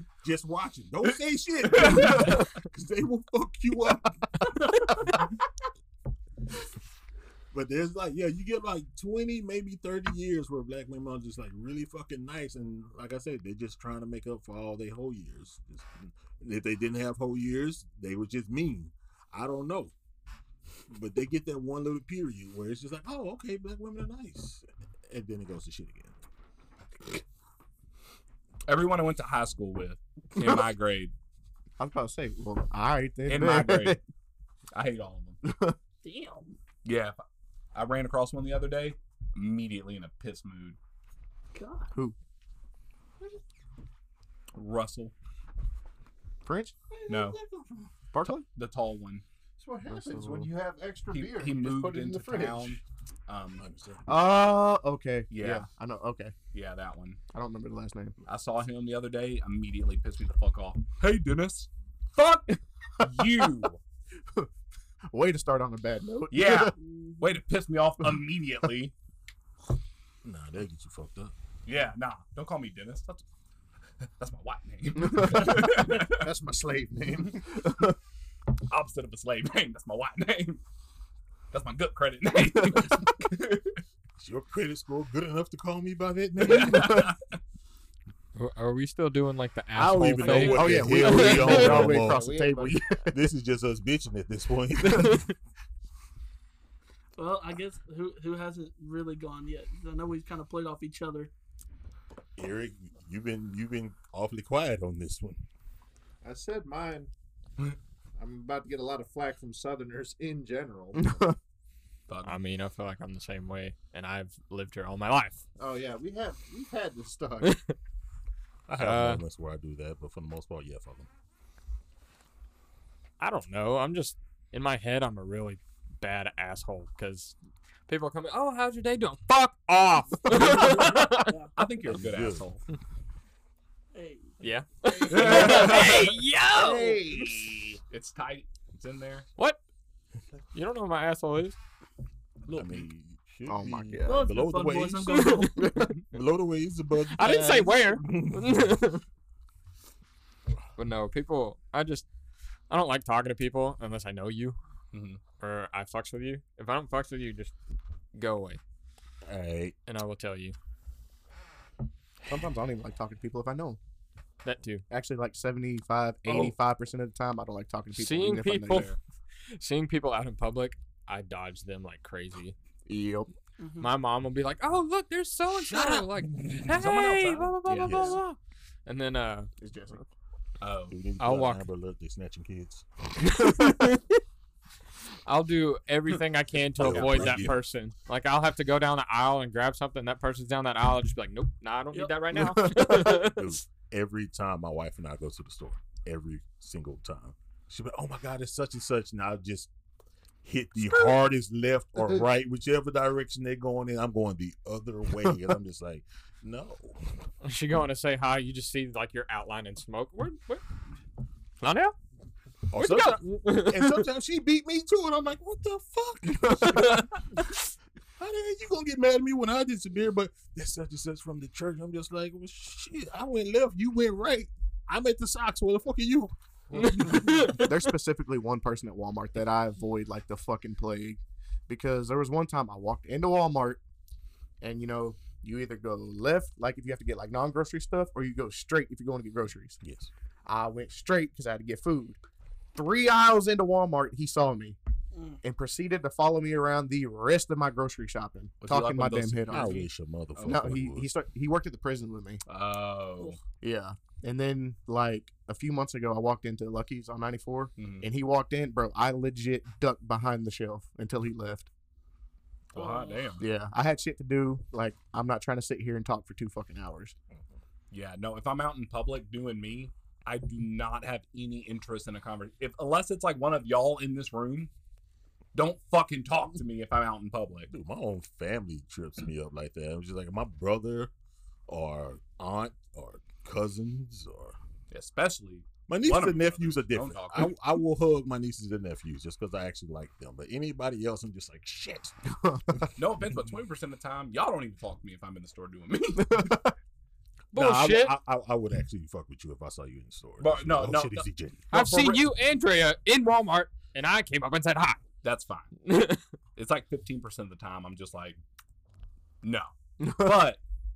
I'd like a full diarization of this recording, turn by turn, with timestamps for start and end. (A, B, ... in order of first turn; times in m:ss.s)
0:00.2-0:04.2 A
0:01.6-0:02.4 B
0:07.5-0:19.9 A
0:20.9-0:26.2 A
0:28.7-0:31.1 B
0:31.8-0:34.0 C
0:33.3-0:34.0 B
0:34.7-0:35.4 B
0:35.4-0:35.8 C
0:36.0-0:36.5 D
0:36.8-0:37.2 B
0:37.7-0:40.8 B
0:41.5-0:41.9 D
0:44.5-0:45.1 B
0:46.4-0:46.7 C
0:46.9-0:47.9 E
0:47.1-0:47.4 B
0:48.1-0:48.4 C
0:48.5-0:49.2 B
0:49.6-0:52.8 E
0:49.9-0:50.5 C
0:51.1-0:53.6 B
0:53.6-0:54.0 A
0:54.1-0:56.3 C
0:55.3-0:55.7 B
0:56.5-0:57.2 B
0:57.3-0:58.1 C
0:58.3-1:03.8 B
1:03.0-1:03.5 C
1:05.1-1:06.7 C
1:06.3-1:08.9 B
1:06.8-1:07.3 D
1:10.2-1:11.3 A
1:11.6-1:13.2 B
1:14.0-1:16.2 B
1:15.0-1:15.7 C
1:15.4-1:17.6 E
1:17.6-1:17.9 C
1:18.7-1:20.6 B
1:21.5-1:23.8 B
1:22.6-1:23.0 C
1:24.2-1:27.1 A
1:26.4-1:27.2 B
1:26.7-1:27.0 C
1:28.4-1:31.7 F
1:29.8-1:32.3 A
1:30.3-1:33.1 C
1:30.9-1:32.8 E
1:33.1-1:35.3 A
1:34.8-1:35.3 F
1:37.2-1:41.3 D
1:42.4-1:45.4 A
1:46.2-1:47.1 E
1:48.2-1:51.3 E
1:50.9-1:51.3 C
1:52.1-1:52.4 B
1:52.2-1:55.4 F
1:55.6-1:57.6 E
1:57.4-1:57.7 F
1:58.7-2:01.1 A
1:58.8-1:59.2 F
2:03.2-2:07.3 F
2:07.9-2:11.3 F
2:11.2-2:11.6 D
2:11.6-2:12.6 B
2:11.8-2:12.4 A
2:13.9-2:14.3 D
2:14.4-2:16.9 F
2:15.1-2:16.2 B
2:15.1-2:16.8 D
2:16.5-2:17.7 E
2:17.2-2:19.2 B
2:20.5-2:21.6 F
2:22.5-2:28.7 A
2:23.5-2:24.4 C
2:24.0-2:25.7 D
2:25.1-2:25.9 F
2:25.6-2:25.9 C
2:27.0-2:29.0 F
2:30.8-2:32.0 F
2:32.7-2:34.6 F
2:34.9-2:35.2 B
2:35.4-2:37.6 F
2:38.1-2:38.6 F
2:39.2-2:39.8 A
2:39.9-2:40.5 F
2:42.3-2:43.8 C
2:44.4-2:44.8 F
2:44.9-2:48.9 C
2:47.9-2:49.0 F
2:48.7-2:49.0 B
2:49.5-2:52.6 F
2:52.8-2:53.3 C
2:53.6-2:53.9 D
2:53.8-2:59.5 F
2:55.5-2:56.6 A
2:56.6-2:58.1 B
2:57.8-2:58.2 A
2:59.6-3:00.0 C
3:00.6-3:01.0 B
3:00.9-3:02.8 A
3:01.2-3:01.7 F
3:03.3-3:04.1 F
3:05.3-3:13.6 F
3:06.7-3:07.6 A
3:06.8-3:07.2 B
3:11.9-3:12.2 D
3:12.3-3:13.3 C
3:12.7-3:19.7 A
3:20.4-3:27.0 A
3:27.4-3:30.6 F
3:31.6-3:31.9 F
3:32.7-3:37.0 A
3:32.8-3:34.1 F
3:36.4-3:36.8 C
3:36.7-3:37.0 F
3:38.2-3:47.6 A
3:46.7-3:47.7 F
3:47.6-3:53.8 C
3:54.6-3:59.8 C
3:59.8-4:00.1 A
4:00.4-4:02.2 C
4:02.7-4:04.8 C
4:05.1-4:05.4 D
4:05.4-4:09.8 C
4:08.6-4:10.6 B
4:09.5-4:11.1 A
4:10.4-4:12.4 C
4:12.5-4:13.4 B
4:13.6-4:21.7 C
4:17.8-4:18.1 B
4:22.7-4:23.4 B
4:22.8-4:23.3 D
4:23.4-4:27.1 C
4:27.9-4:34.7 B
4:35.5-4:37.7 B
4:37.7-4:41.1 A
4:41.7-4:44.6 A
4:44.9-4:47.5 B
4:45.9-4:52.1 A
4:52.3-4:52.9 C
4:53.0-4:56.6 B
4:56.2-4:56.7 C
4:57.5-4:58.2 F
4:57.5-5:01.6 A
5:00.4-5:02.2 B
5:01.7-5:05.0 F
5:05.2-5:05.7 B
5:05.8-5:06.2 F
5:06.6-5:08.4 B
5:09.4-5:10.6 B
5:10.0-5:10.3 C